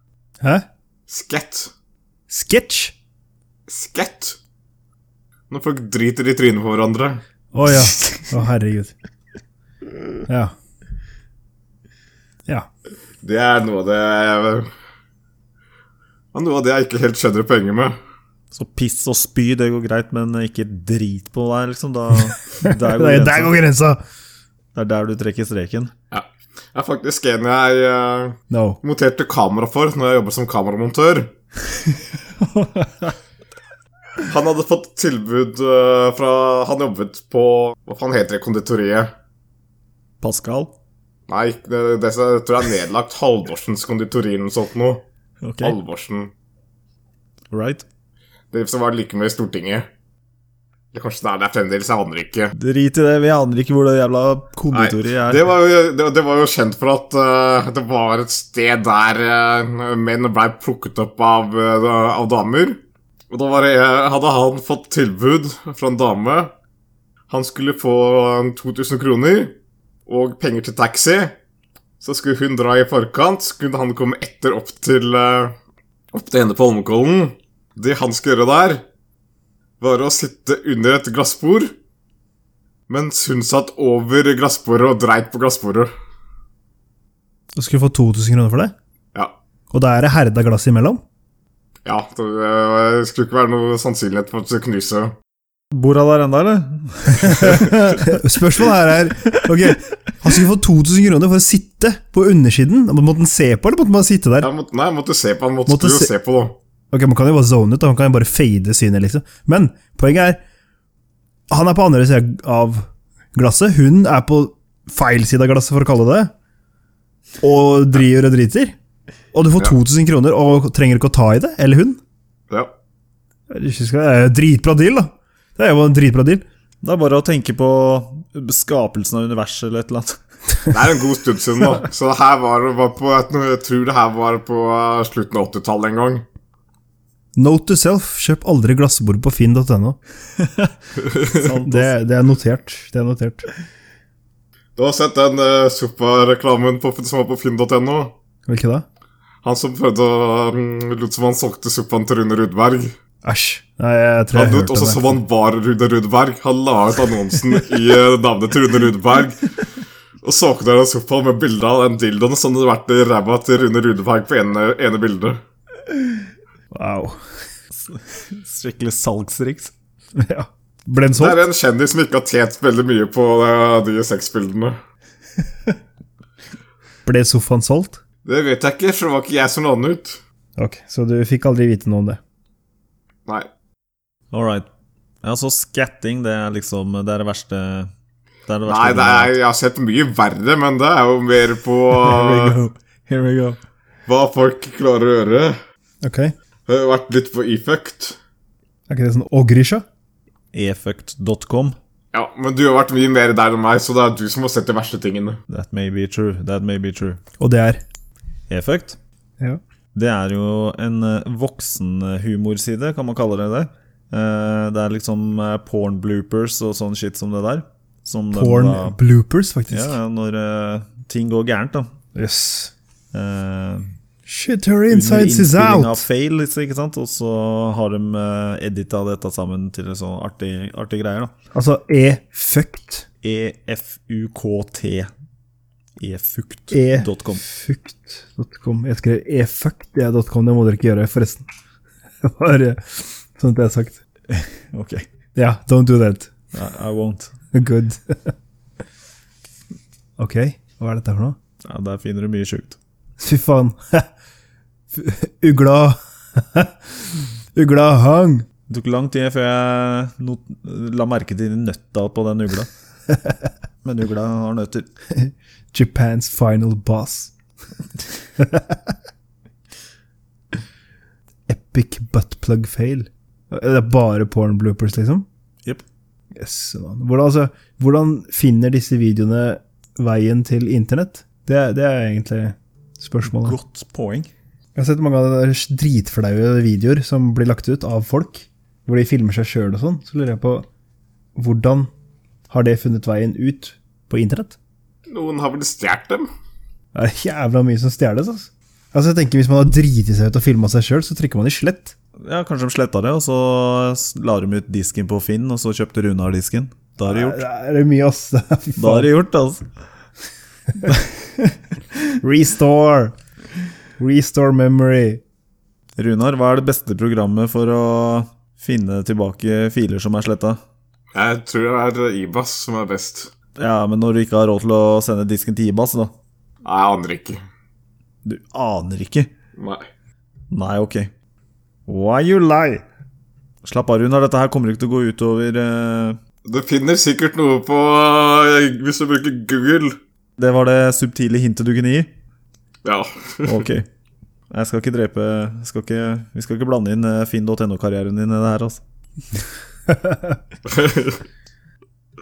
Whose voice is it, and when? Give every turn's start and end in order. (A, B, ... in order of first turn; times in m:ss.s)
0:01.1-0:01.7 A
0:02.3-0:02.9 B
0:03.7-0:04.4 A
0:05.5-0:07.2 A
0:07.5-0:08.9 B
0:10.2-0:10.5 B
0:13.2-0:14.7 A
0:16.3-0:18.0 A
0:18.5-0:23.6 C
0:22.6-0:24.0 B
0:24.7-0:25.9 C
0:26.1-0:31.3 A
0:28.5-0:28.8 B
0:32.4-0:33.1 C
0:34.2-0:39.1 A
0:40.2-0:40.7 C
0:41.3-0:45.0 A
0:45.4-0:45.8 C
0:45.6-0:46.3 A
0:47.5-0:47.8 C
0:48.5-0:49.9 A
0:50.9-0:52.5 A
0:52.5-0:55.4 C
0:54.7-1:06.5 A
1:07.3-1:09.5 A
1:10.1-1:11.3 A
1:12.0-1:15.5 A
1:16.1-1:18.8 A
1:19.8-1:21.7 A
1:22.9-1:25.9 A
1:27.6-1:28.7 B
1:29.7-1:31.0 B
1:31.8-1:35.1 A
1:35.7-1:38.0 C
1:37.2-1:44.5 B
1:39.4-1:39.7 C
1:44.4-1:46.5 A
1:45.7-1:46.1 B
1:46.9-1:50.4 B
1:51.5-1:56.3 B
1:57.4-1:58.7 B
1:59.3-2:02.0 B
2:03.5-2:06.4 B
2:06.8-2:10.2 C
2:10.7-2:16.2 A
2:17.4-2:20.0 B
2:20.4-2:20.7 C
2:21.0-2:21.5 A
2:21.3-2:21.9 C
2:21.6-2:23.5 B
2:24.8-2:28.1 A
2:28.5-2:28.8 B
2:29.4-2:32.9 A
2:33.2-2:35.2 B
2:34.3-2:39.5 A
2:40.2-2:45.4 A
2:46.7-2:47.2 B
2:47.7-2:49.7 C
2:50.2-2:51.4 B
2:51.2-2:54.8 A
2:57.0-2:58.0 B
2:58.2-3:00.2 A
3:00.6-3:02.2 B
3:04.3-3:04.7 C
3:05.2-3:07.9 C
3:08.5-3:09.4 C
3:08.6-3:12.6 A
3:11.9-3:13.6 C
3:14.1-3:15.6 A
3:16.0-3:16.3 B
3:16.7-3:18.2 A
3:18.9-3:19.8 B
3:20.5-3:21.8 C
3:22.1-3:25.4 A
3:25.5-3:27.2 C
3:27.4-3:27.8 B
3:28.5-3:29.0 C
3:29.9-3:39.0 C
3:38.3-3:40.0 B
3:39.7-3:41.9 C
3:42.1-3:42.7 B
3:43.1-3:43.9 C
3:44.2-3:46.0 B
3:44.9-3:51.3 C
3:51.5-3:53.0 B
3:53.2-3:55.1 C
3:56.0-3:57.4 C
3:56.7-4:01.4 B
4:02.2-4:04.0 B
4:04.3-4:05.1 C
4:05.3-4:06.3 B
4:06.5-4:07.3 C
4:07.5-4:08.3 B
4:10.2-4:11.4 B
4:11.6-4:12.8 C
4:13.2-4:14.1 B
4:14.9-4:18.4 B
4:18.7-4:22.7 C
4:23.8-4:24.9 C
4:25.1-4:27.3 B
4:28.4-4:28.9 B
4:31.5-4:35.2 B
4:36.4-4:43.6 B
4:43.2-4:44.3 C
4:44.8-4:50.6 B
4:51.4-4:51.9 B
4:52.5-4:54.6 B
4:55.1-4:56.3 A
4:56.9-5:01.9 B
5:02.2-5:07.4 C
5:07.0-5:09.1 B
5:08.8-5:09.6 C
5:10.8-5:11.5 C
5:12.2-5:13.2 B
5:14.0-5:15.2 B
5:16.0-5:20.6 C
5:21.1-5:23.3 A
5:23.6-5:26.1 C
5:26.6-5:27.4 A
5:28.2-5:29.3 C
5:29.6-5:29.8 A
5:30.5-5:31.1 C
5:31.9-5:32.8 C
5:33.6-5:36.2 C
5:36.4-5:40.0 A
5:40.4-5:42.1 C
5:42.8-5:43.7 A
5:43.4-5:43.9 C
5:44.5-5:48.8 C
5:49.9-5:50.3 B
5:50.6-5:51.2 A